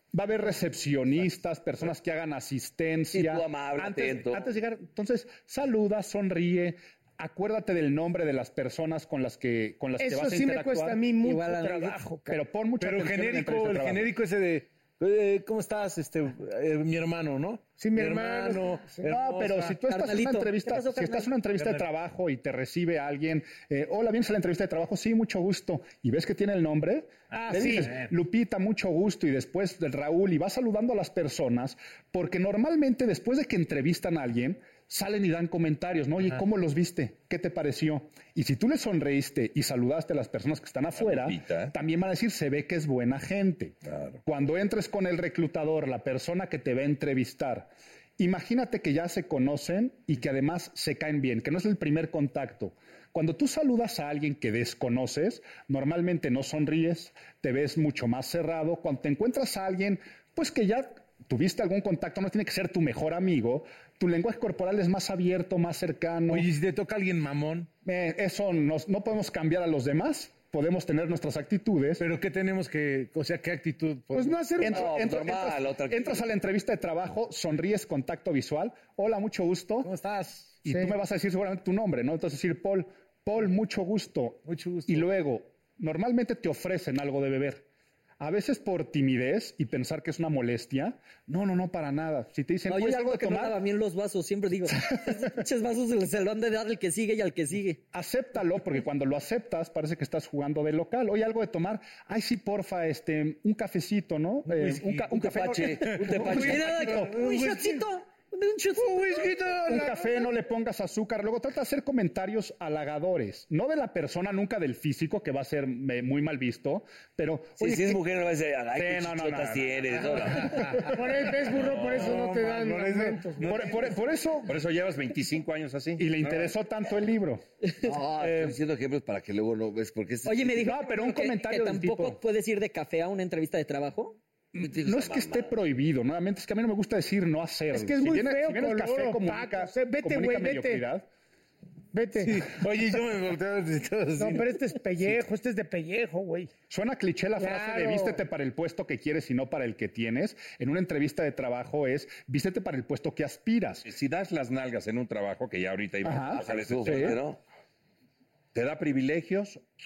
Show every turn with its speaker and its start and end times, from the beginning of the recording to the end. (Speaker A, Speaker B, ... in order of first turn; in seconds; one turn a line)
Speaker A: 0.1-11.1
Speaker B: 3.1-4.4
Speaker C: 10.0-12.4
Speaker D: 11.2-12.0
Speaker A: 12.3-14.1
Speaker E: 12.8-19.8
Speaker C: 17.8-19.1
Speaker A: 19.1-66.5
Speaker D: 19.9-21.3
Speaker E: 21.5-21.9
Speaker C: 27.3-27.9
Speaker E: 27.8-28.1
Speaker F: 41.1-41.7
Speaker E: 66.3-67.7
Speaker A: 67.8-72.0
Speaker E: 72.0-74.5
Speaker C: 74.1-74.9
Speaker A: 74.6-79.9
Speaker B: 74.6-76.3
Speaker E: 79.8-80.6
Speaker C: 80.6-80.9
Speaker A: 80.6-87.7
Speaker E: 84.4-85.1
Speaker A: 88.2-93.6
Speaker D: 92.7-97.8
Speaker A: 97.9-107.2
Speaker E: 104.5-105.1
Speaker B: 105.1-106.9
Speaker E: 105.7-107.8
Speaker D: 106.5-109.3
Speaker E: 108.8-110.3
Speaker A: 109.6-118.0
Speaker B: 117.6-120.7
Speaker A: 118.7-120.8
Speaker E: 120.2-120.8
Speaker C: 120.9-123.5
Speaker F: 121.6-121.9
Speaker E: 121.7-123.9
Speaker A: 123.4-124.5
Speaker F: 124.5-126.5
Speaker A: 126.0-127.4
Speaker B: 127.8-130.6
Speaker A: 128.2-128.5
Speaker D: 130.2-134.2
Speaker A: 130.6-132.2
Speaker A: 134.5-141.0
Speaker B: 134.6-135.5
Speaker C: 137.7-140.8
Speaker C: 141.9-142.4
Speaker E: 142.2-145.2
Speaker C: 144.2-146.5
Speaker A: 146.7-153.9
Speaker C: 147.4-148.2
Speaker F: 153.8-157.2
Speaker A: 156.0-157.2
Speaker B: 156.3-157.4
Speaker F: 158.5-159.6